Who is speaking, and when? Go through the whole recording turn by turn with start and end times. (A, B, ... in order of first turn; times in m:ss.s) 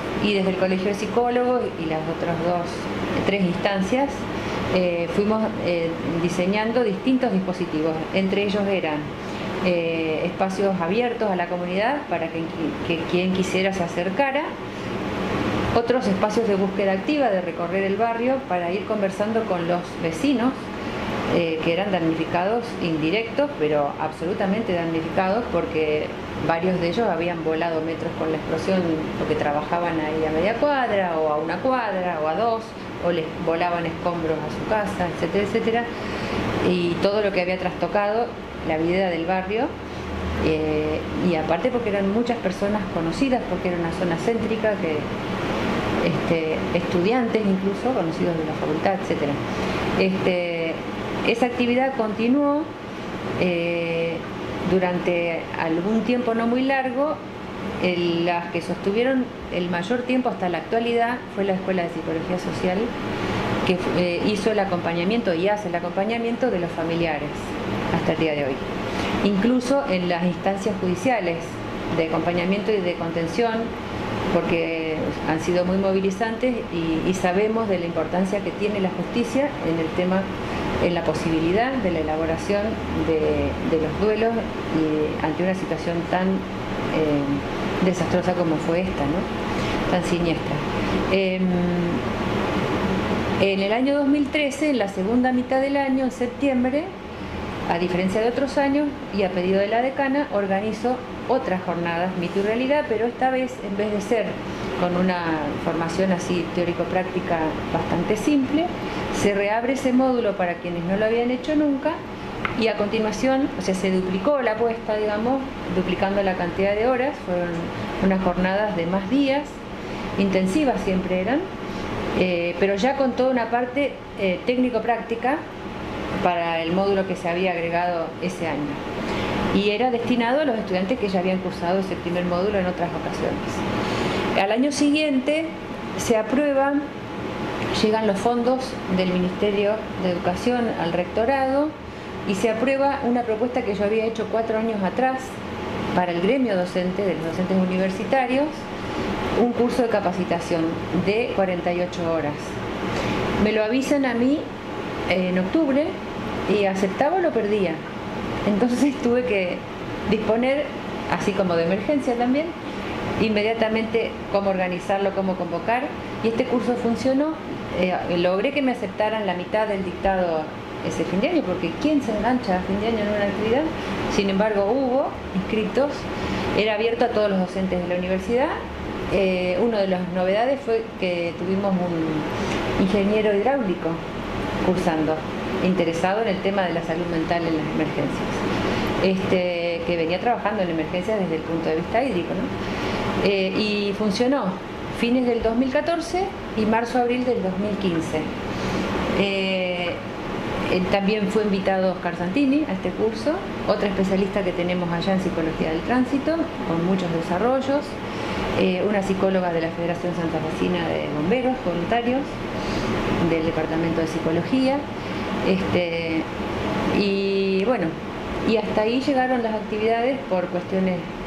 0:00.2-0:09.1 A
0:09.6-0:14.5 A
0:15.7-0:20.6 A
0:21.3-0:35.9 A
0:36.6-0:39.7 A
0:40.4-0:45.1 A
0:46.0-0:49.4 A
0:50.0-0:52.7 A
0:53.4-0:57.2 A
0:57.8-1:02.9 A
1:03.6-1:08.6 A
1:09.2-1:13.7 A
1:14.3-1:20.2 A
1:20.8-1:29.3 A
1:29.9-1:32.0 A
1:33.4-1:36.9 A
1:37.7-1:52.0 A
1:52.6-1:59.6 A
2:00.2-2:01.4 A
2:02.2-2:05.4 A
2:06.2-2:08.8 A
2:09.5-2:13.6 A
2:14.3-2:16.8 A
2:17.7-2:21.7 A
2:22.2-2:25.3 A
2:25.9-2:28.6 A
2:29.4-2:32.5 A
2:33.4-2:34.4 A
2:35.1-2:35.9 A
2:36.5-2:37.8 A
2:38.4-2:42.5 A
2:43.2-2:56.0 A
2:56.6-2:58.5 A
2:59.1-3:02.3 A
3:02.8-3:04.0 A
3:04.6-3:08.4 A
3:09.0-3:12.5 A
3:13.2-3:18.3 A
3:19.1-3:20.0 A
3:20.7-3:28.0 A
3:28.6-3:32.3 A
3:33.2-3:34.8 A
3:35.4-3:36.3 A
3:36.9-3:37.9 A
3:38.4-3:41.1 A